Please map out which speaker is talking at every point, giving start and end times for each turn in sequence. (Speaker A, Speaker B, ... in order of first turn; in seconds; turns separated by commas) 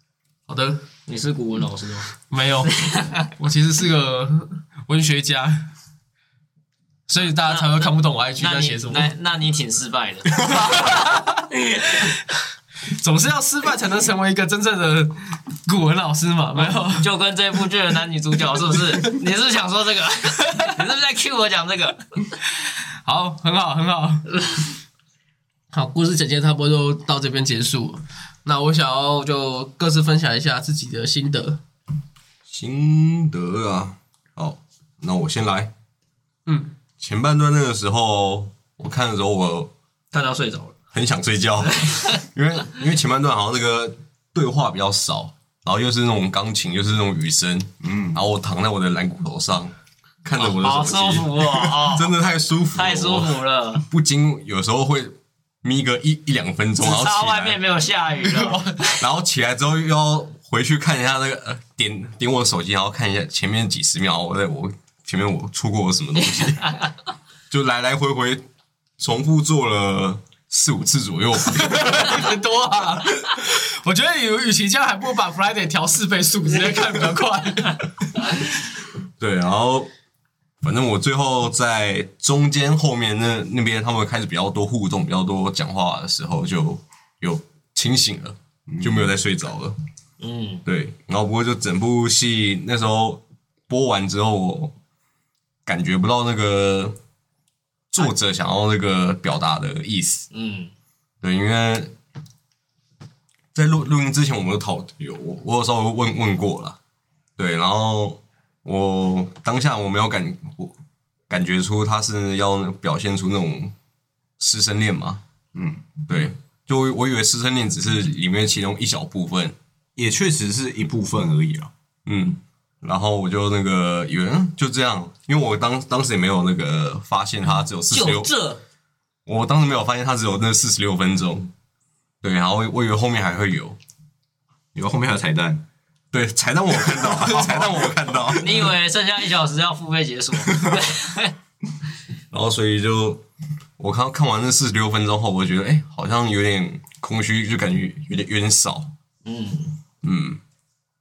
Speaker A: 0.5-0.8, Speaker B: 1.1-2.1, Speaker A: 2.3-5.7, Speaker B: 2.7-3.3, Speaker A: 7.1-9.1, Speaker B: 7.4-10.9, Speaker A: 10.4-17.1, Speaker B: 16.6-22.0, Speaker A: 23.0-24.3, Speaker A: 25.7-31.6, Speaker C: 32.5-35.7, Speaker A: 36.5-36.7, Speaker C: 37.0-39.7, Speaker B: 40.1-40.8, Speaker C: 40.9-57.6, Speaker B: 41.6-42.1, Speaker D: 47.8-48.2, Speaker B: 50.4-52.2, Speaker B: 52.7-53.8, Speaker B: 56.8-58.9, Speaker A: 58.4-58.7, Speaker C: 58.8-66.8, Speaker C: 67.5-68.4, Speaker C: 69.0-71.6, Speaker D: 71.3-72.0, Speaker A: 71.6-77.9, Speaker C: 79.2-79.9, Speaker C: 80.6-89.8, Speaker D: 88.7-89.1, Speaker B: 90.2-90.6, Speaker C: 90.6-94.7, Speaker C: 95.7-97.0, Speaker C: 97.9-100.3, Speaker B: 100.3-100.7, Speaker C: 101.2-101.9, Speaker C: 103.5-106.8, Speaker C: 107.4-110.7, Speaker C: 111.3-113.7, Speaker C: 114.4-115.2, Speaker D: 115.5-115.8, Speaker C: 116.0-119.5, Speaker D: 120.0-121.7, Speaker C: 122.0-128.3, Speaker B: 127.9-128.5, Speaker C: 129.2-131.5, Speaker C: 132.2-133.8, Speaker D: 134.7-135.6, Speaker C: 136.1-138.7, Speaker D: 136.9-138.1, Speaker B: 138.4-141.3, Speaker C: 142.3-143.2, Speaker C: 143.8-148.9, Speaker B: 149.2-149.8, Speaker C: 150.0-150.4